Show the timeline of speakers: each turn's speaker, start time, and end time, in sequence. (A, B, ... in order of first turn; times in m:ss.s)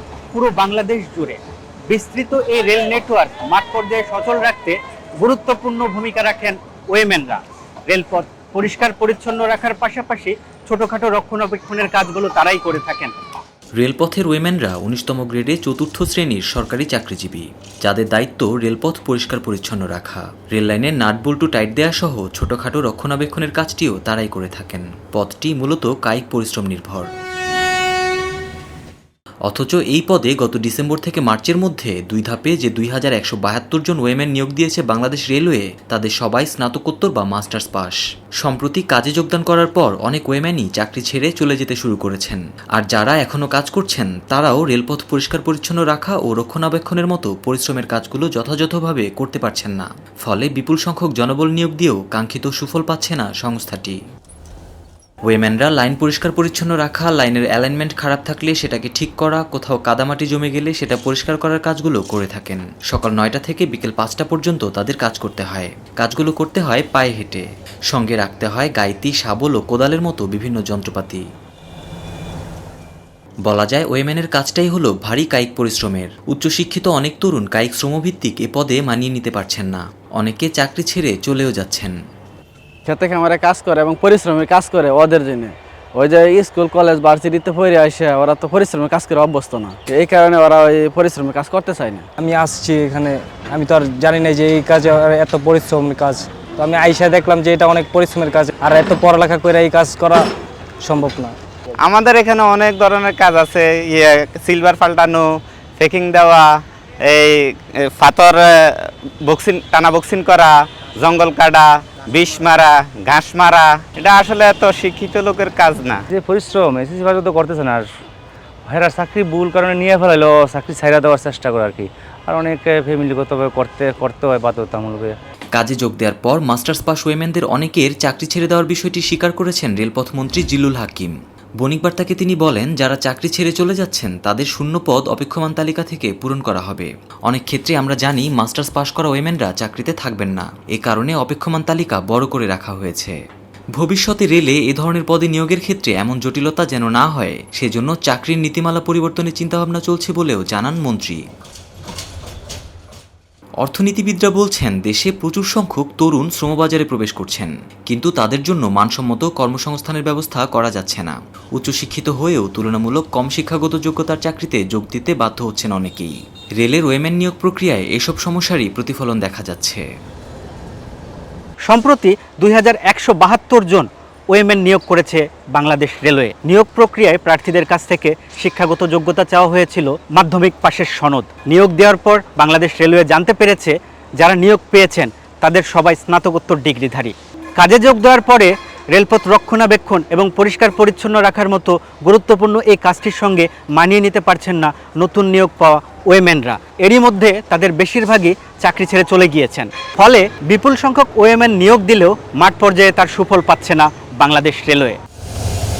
0:00.3-0:13.2 A
0:13.8-0:27.1 B
0:29.5-0:54.0 B
0:55.3-1:11.2 B
1:13.4-1:22.0 B
1:22.8-1:32.1 C
1:32.2-1:40.3 D
1:40.8-1:41.4 D
1:41.8-1:56.0 E
1:56.1-1:57.9 F
1:58.7-2:05.2 F
2:05.5-2:23.2 B
2:23.8-2:31.2 B
2:33.6-2:49.8 B
2:51.7-3:25.0 A